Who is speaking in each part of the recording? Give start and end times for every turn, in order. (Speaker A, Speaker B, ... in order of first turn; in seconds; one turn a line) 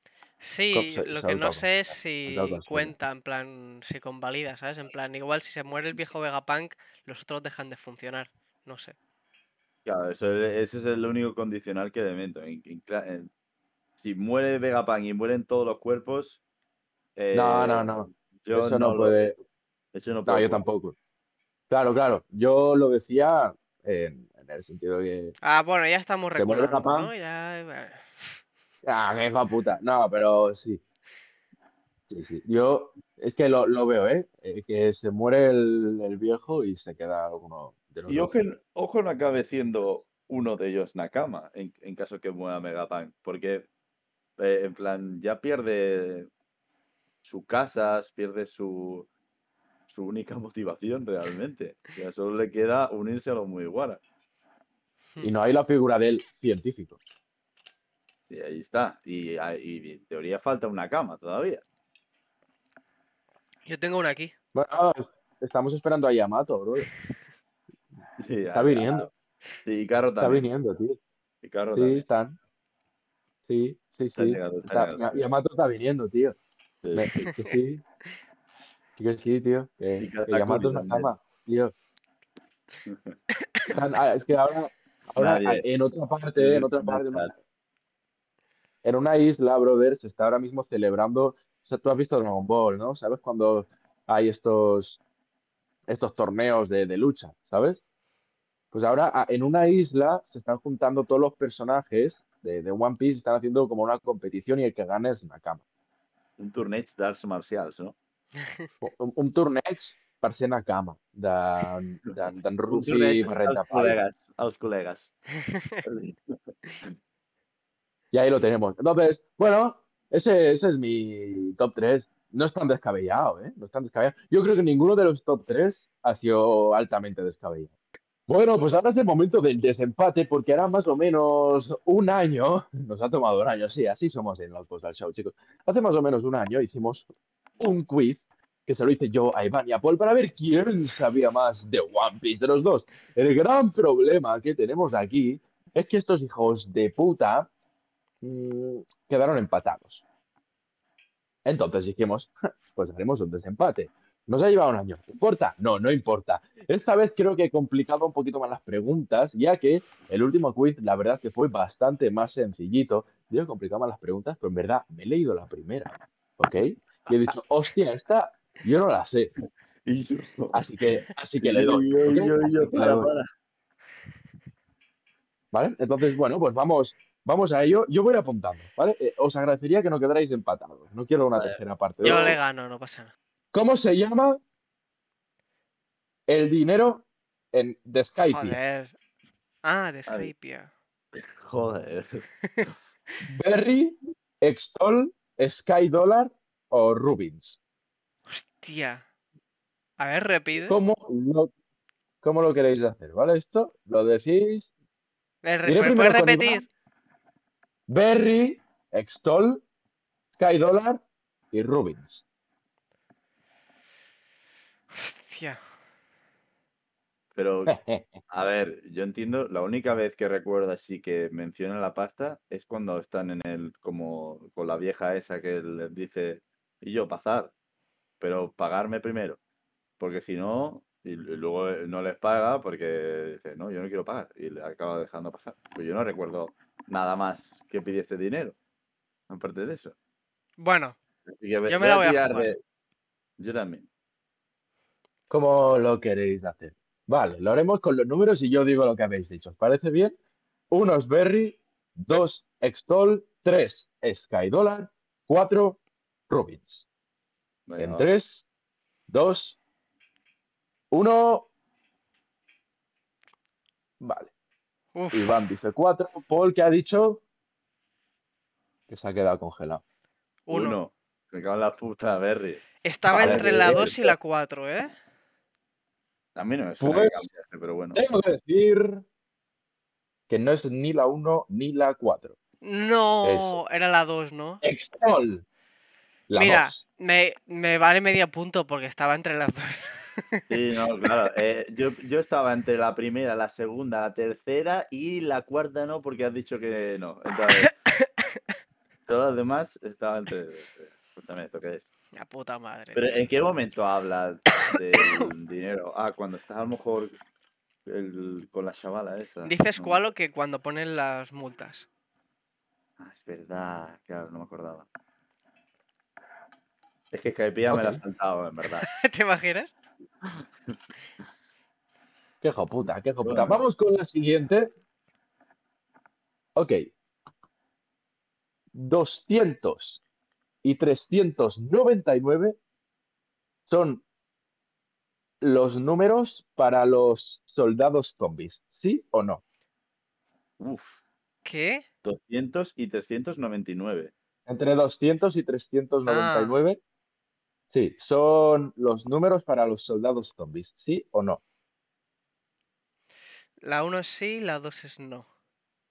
Speaker A: 0.4-8.9
Speaker B: 0.7-2.9
Speaker C: 9.8-13.3
Speaker C: 14.0-16.4
Speaker C: 17.2-19.2
Speaker B: 17.3-19.4
Speaker C: 19.9-20.6
Speaker B: 20.3-20.9
Speaker B: 21.7-25.3
Speaker A: 25.4-28.4
Speaker B: 26.3-27.1
Speaker B: 28.8-30.8
Speaker B: 32.1-38.4
Speaker C: 38.1-43.7
Speaker C: 44.4-46.3
Speaker C: 47.2-49.1
Speaker C: 49.9-54.0
Speaker B: 55.2-57.0
Speaker C: 58.3-61.6
Speaker A: 63.7-64.3
Speaker B: 64.5-66.9
Speaker C: 68.2-69.1
Speaker B: 68.5-69.1
Speaker C: 69.6-70.5
Speaker B: 70.2-71.0
Speaker C: 71.4-72.0
Speaker B: 71.7-72.4
Speaker B: 73.5-76.4
Speaker C: 74.2-75.2
Speaker C: 76.8-77.2
Speaker B: 76.9-77.8
Speaker B: 79.0-81.7
Speaker C: 80.0-81.1
Speaker C: 82.9-83.2
Speaker B: 83.7-87.3
Speaker C: 85.2-85.6
Speaker C: 86.4-87.3
Speaker B: 88.8-95.0
Speaker B: 95.9-97.8
Speaker B: 98.7-105.6
Speaker C: 106.4-108.0
Speaker B: 108.8-114.0
Speaker C: 112.7-115.1
Speaker C: 115.8-116.9
Speaker B: 118.1-127.7
Speaker B: 128.3-137.1
Speaker B: 137.6-147.5
Speaker B: 148.2-150.0
Speaker B: 151.4-169.3
Speaker C: 169.8-173.3
Speaker B: 170.5-173.1
Speaker B: 175.5-182.3
Speaker C: 181.4-182.4
Speaker A: 182.0-183.1
Speaker B: 183.5-184.4
Speaker B: 186.3-188.6
Speaker A: 188.2-188.9
Speaker A: 189.6-190.7
Speaker C: 191.1-192.2
Speaker A: 192.4-192.7
Speaker B: 193.2-197.6
Speaker A: 198.3-199.1
Speaker A: 200.0-200.8
Speaker B: 200.7-201.5
Speaker B: 202.2-204.7
Speaker A: 205.4-206.7
Speaker B: 205.7-206.6
Speaker B: 207.9-209.6
Speaker B: 210.4-212.2
Speaker A: 214.9-215.6
Speaker C: 217.3-217.7
Speaker B: 217.7-218.1
Speaker C: 218.3-227.5
Speaker C: 228.2-229.4
Speaker C: 230.0-238.6
Speaker C: 239.3-239.9
Speaker A: 240.6-241.0
Speaker C: 241.3-242.6
Speaker A: 241.7-242.5
Speaker C: 243.4-243.9
Speaker B: 245.3-250.1
Speaker B: 250.7-256.9
Speaker C: 257.7-258.1
Speaker B: 257.8-258.4
Speaker B: 259.1-259.6
Speaker B: 260.9-261.5
Speaker B: 264.0-264.3
Speaker A: 264.9-265.3
Speaker B: 265.1-267.2
Speaker B: 268.9-269.8
Speaker A: 270.5-270.8
Speaker C: 270.5-274.0
Speaker A: 272.8-274.9
Speaker B: 273.1-274.1
Speaker C: 276.4-278.0
Speaker B: 276.8-277.3
Speaker B: 277.9-279.0
Speaker B: 280.3-282.4
Speaker A: 282.6-284.6
Speaker B: 283.2-283.6
Speaker B: 284.6-285.4
Speaker B: 286.3-286.8
Speaker A: 286.3-290.4
Speaker C: 290.5-297.7
Speaker A: 297.6-298.0
Speaker C: 299.1-301.9
Speaker A: 302.1-303.1
Speaker C: 302.9-307.2
Speaker A: 304.7-305.3
Speaker C: 307.9-310.0
Speaker A: 309.4-311.9
Speaker C: 313.0-314.9
Speaker C: 317.1-318.9
Speaker B: 317.7-318.0
Speaker A: 318.8-319.7
Speaker C: 320.2-320.8
Speaker B: 322.4-324.7
Speaker C: 323.2-323.6
Speaker B: 326.6-326.9
Speaker B: 328.7-330.0
Speaker B: 330.6-332.6
Speaker B: 333.7-334.0
Speaker B: 335.4-339.4
Speaker C: 340.6-341.0
Speaker A: 341.4-341.8
Speaker C: 342.0-344.1
Speaker B: 344.5-346.8
Speaker A: 346.1-346.6
Speaker B: 347.7-351.4
Speaker A: 353.6-355.3